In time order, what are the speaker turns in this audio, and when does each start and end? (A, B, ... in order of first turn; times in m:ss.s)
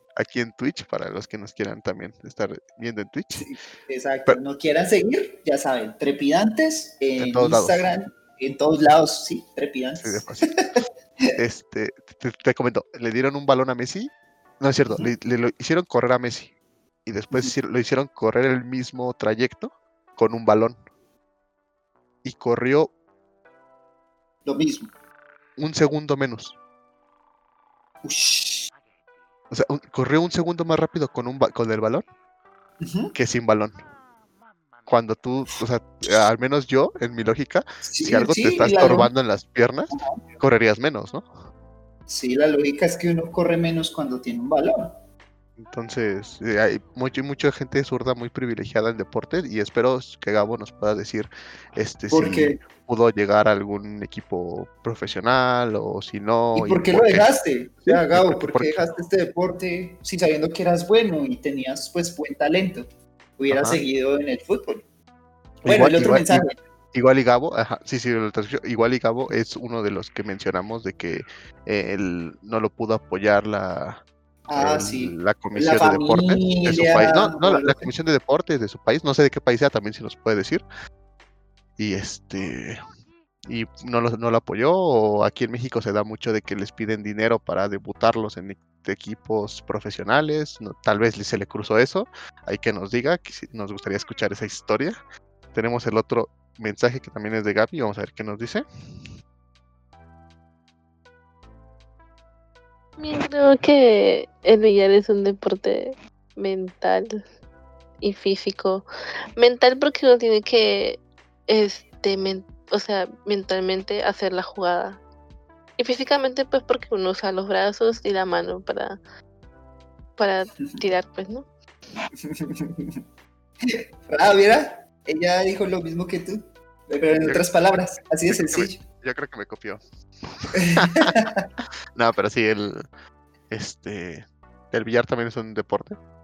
0:00.2-0:03.5 A
0:03.3-0:10.8 B
0:07.2-0:07.8 A
0:10.0-0:10.5 A
0:11.4-0:16.5 A
0:17.1-0:20.8 A
0:22.2-0:22.9 A
0:24.4-0:24.9 B
0:25.6-0:26.6 A
0:28.0-0:28.7 B
0:29.5-0:32.0 A
0:32.8-0:33.1 B
0:33.2-0:33.8 A
0:34.9-0:41.3 A
0:37.8-0:39.1 B
0:39.9-0:40.3 B
0:42.1-0:45.0 B
0:45.6-0:57.3 A
0:52.1-0:52.6 B
0:56.6-1:02.9 B
0:57.9-0:58.8 A
1:03.4-1:04.8 B
1:03.5-1:03.8 A
1:05.6-1:20.6 A
1:05.7-1:06.6 B
1:14.5-1:17.9 B
1:21.8-1:22.8 A
1:23.5-1:35.0 A
1:35.5-1:39.1 A
1:43.0-1:47.2 C
1:48.0-1:55.0 C
1:55.8-1:59.0 C
2:00.2-2:01.5 C
2:02.2-2:03.0 B
2:03.7-2:08.8 B
2:07.2-2:07.5 A
2:08.3-2:09.8 A
2:10.3-2:11.1 A
2:10.6-2:11.5 B
2:12.0-2:12.8 A
2:13.5-2:16.0 A